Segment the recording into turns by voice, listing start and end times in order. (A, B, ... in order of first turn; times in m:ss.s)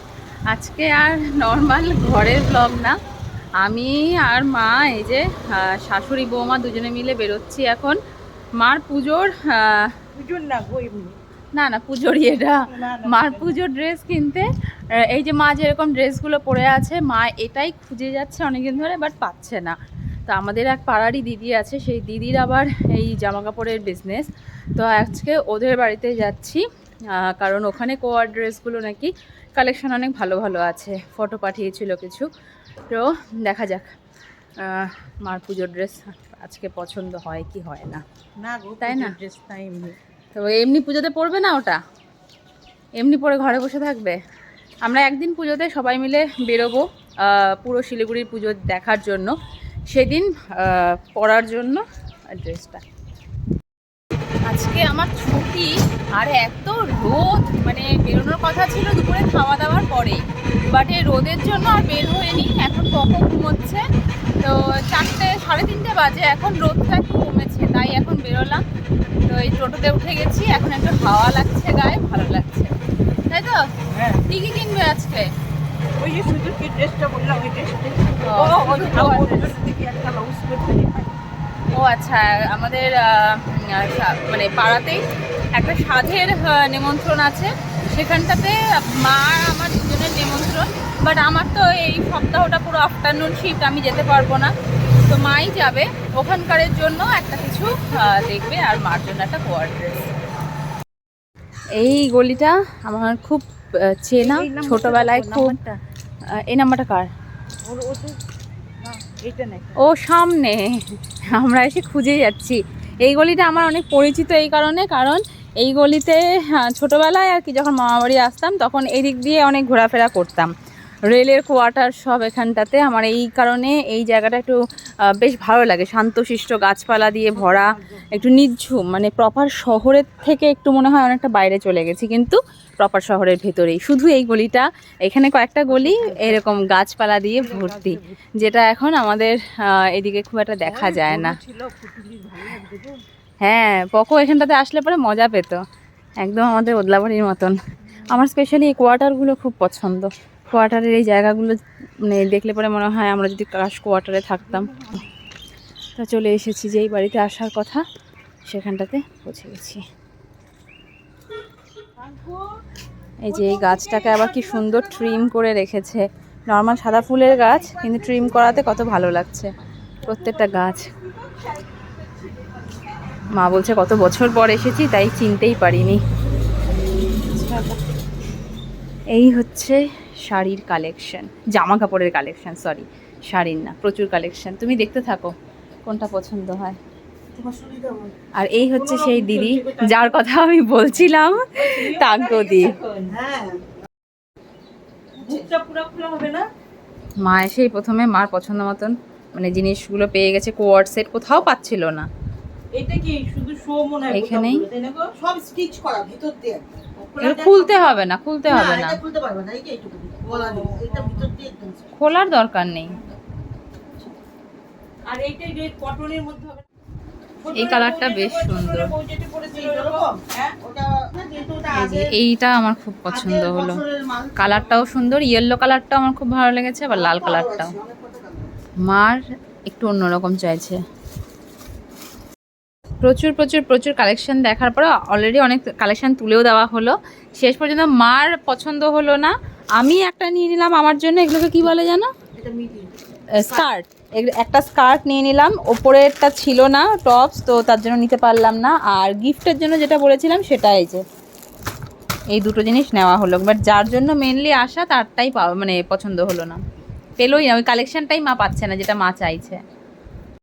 0:00.5-0:02.9 A
0:03.6-0:08.0 A
0:08.6-0:09.9 A
0:10.2-0:11.2 B
0:11.6-0:19.8 A
0:12.7-0:13.5 B
0:20.3-0:32.3 A
0:32.9-0:33.9 A
0:34.6-0:38.0 A
0:38.4-0:40.0 B
0:38.8-0:39.2 A
0:40.4-0:41.8 A
0:43.0-0:44.2 A
0:44.8-0:49.3 A
0:49.9-0:51.8 A
0:52.4-0:52.8 A
0:54.5-1:03.8 A
1:04.4-1:08.6 A
1:09.3-1:12.7 A
1:13.3-1:13.6 A
1:13.9-1:14.2 B
1:14.3-1:15.3 A
1:16.0-1:21.2 B
1:18.2-1:19.5 A
1:21.7-1:25.0 A
1:25.5-1:34.5 A
1:35.1-1:40.1 A
1:41.8-1:43.5 A
1:44.0-1:45.6 A
1:44.2-1:45.8 B
1:46.4-1:47.1 A
1:47.7-1:48.2 B
1:48.8-1:49.8 B
1:49.8-2:00.5 A
2:01.1-2:04.6 A
2:05.2-2:21.4 A
2:07.3-2:08.2 B
2:15.7-2:16.4 B
2:17.4-2:18.2 B
2:20.6-2:23.0 B
2:23.4-2:25.6 A
2:26.2-2:34.7 A
2:34.4-2:35.1 B
2:36.0-2:37.8 A
2:38.5-2:39.8 A
2:42.0-2:42.5 B
2:43.3-2:49.5 A
2:43.3-2:45.2 B
2:47.0-2:48.7 B
2:50.0-2:50.9 A
2:50.1-2:53.2 B
2:53.3-2:56.0 A
2:57.3-2:57.8 A
2:59.1-3:05.3 A
3:05.9-3:06.8 A
3:07.4-3:08.1 C
3:08.4-3:12.8 A
3:08.7-3:10.2 B
3:11.4-3:13.4 B
3:13.2-3:13.6 C
3:15.2-3:16.5 B
3:17.2-3:22.1 A
3:22.7-3:25.2 B
3:24.1-3:24.7 A
3:25.2-3:26.6 C
3:27.0-3:27.9 B
3:27.2-3:29.0 A
3:28.5-3:31.8 C
3:30.2-3:31.7 B
3:31.9-3:33.0 A
3:35.1-3:36.6 B
3:37.4-3:40.6 B
3:37.5-3:38.9 A
3:39.5-3:42.1 C
3:41.7-3:43.8 A
3:43.1-3:44.4 C
3:44.4-3:47.8 A
3:47.0-3:48.5 C
3:48.9-3:50.8 A
3:53.0-4:02.1 A
4:02.4-4:02.9 C
4:03.3-4:11.0 A
4:12.3-4:16.6 A
4:17.2-4:19.6 A